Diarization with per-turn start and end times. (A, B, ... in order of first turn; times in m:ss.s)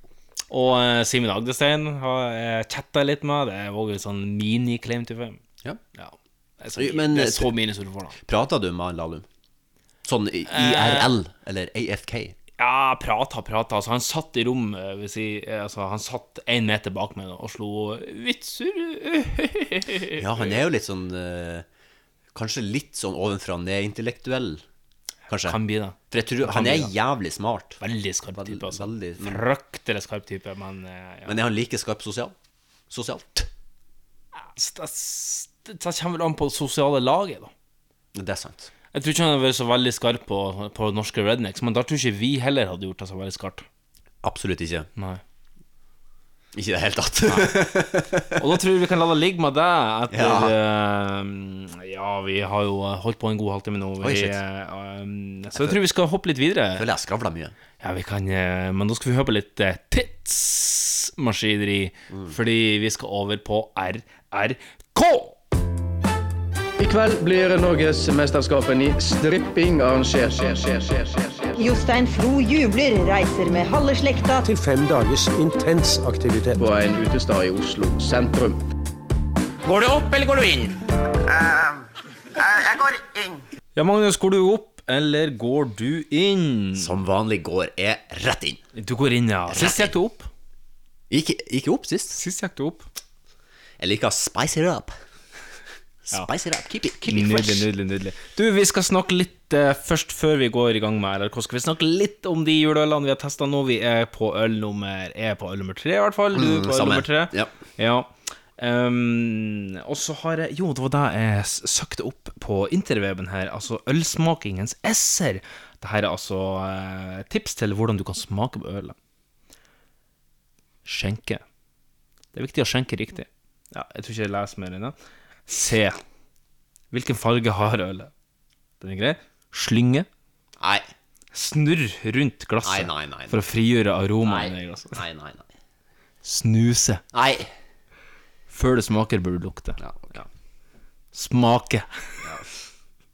0:00.5-0:05.4 A
0:06.0-0:08.2 A
0:06.8-0:07.5 B
0:08.2-0:09.3 B
0:10.0-0:12.4 B
0:10.5-0:11.1 A
0:12.6-0:20.5 A
0:20.2-0:21.6 B
0:22.3-0:24.6 B
0:25.3-0:25.6 B
0:25.4-0:26.9 A
0:26.1-0:27.8 B
0:27.8-0:31.4 A
0:28.3-0:29.4 B
0:31.3-0:32.3 B
0:32.9-0:33.5 B
0:34.6-0:37.5 A
0:38.1-0:38.7 B
0:38.9-0:43.6 A
0:44.2-0:44.9 B
0:45.0-0:45.2 A
0:46.5-0:48.4 B
0:47.3-0:47.6 A
0:48.4-0:56.9 A
0:50.1-0:50.6 B
0:54.0-0:54.4 B
0:56.7-0:57.5 B
0:57.8-1:05.4 A
1:02.1-1:02.3 B
1:06.8-1:11.6 C
1:11.6-1:14.5 D
1:14.4-1:16.7 E
1:16.6-1:18.6 C
1:19.9-1:20.5 B
1:23.8-1:26.9 A
1:26.7-1:28.6 B
1:28.7-1:30.3 A
1:29.5-1:29.9 B
1:31.1-1:32.2 B
1:32.1-1:32.8 A
1:33.8-1:35.0 B
1:36.1-1:37.7 B
1:37.0-1:59.0 A
1:46.3-1:47.5 B
2:00.8-2:01.4 A
2:02.3-2:04.9 A
2:05.5-2:06.0 A
2:06.9-2:08.1 A
2:08.8-2:10.1 A
2:10.6-2:10.9 B
2:11.3-2:15.0 A
2:12.6-2:13.4 B
2:14.2-2:15.5 B
2:16.2-2:17.0 A
2:17.1-2:17.5 B
2:18.5-2:19.8 A
2:19.8-2:20.3 B
2:21.1-2:21.9 A
2:22.2-2:22.5 B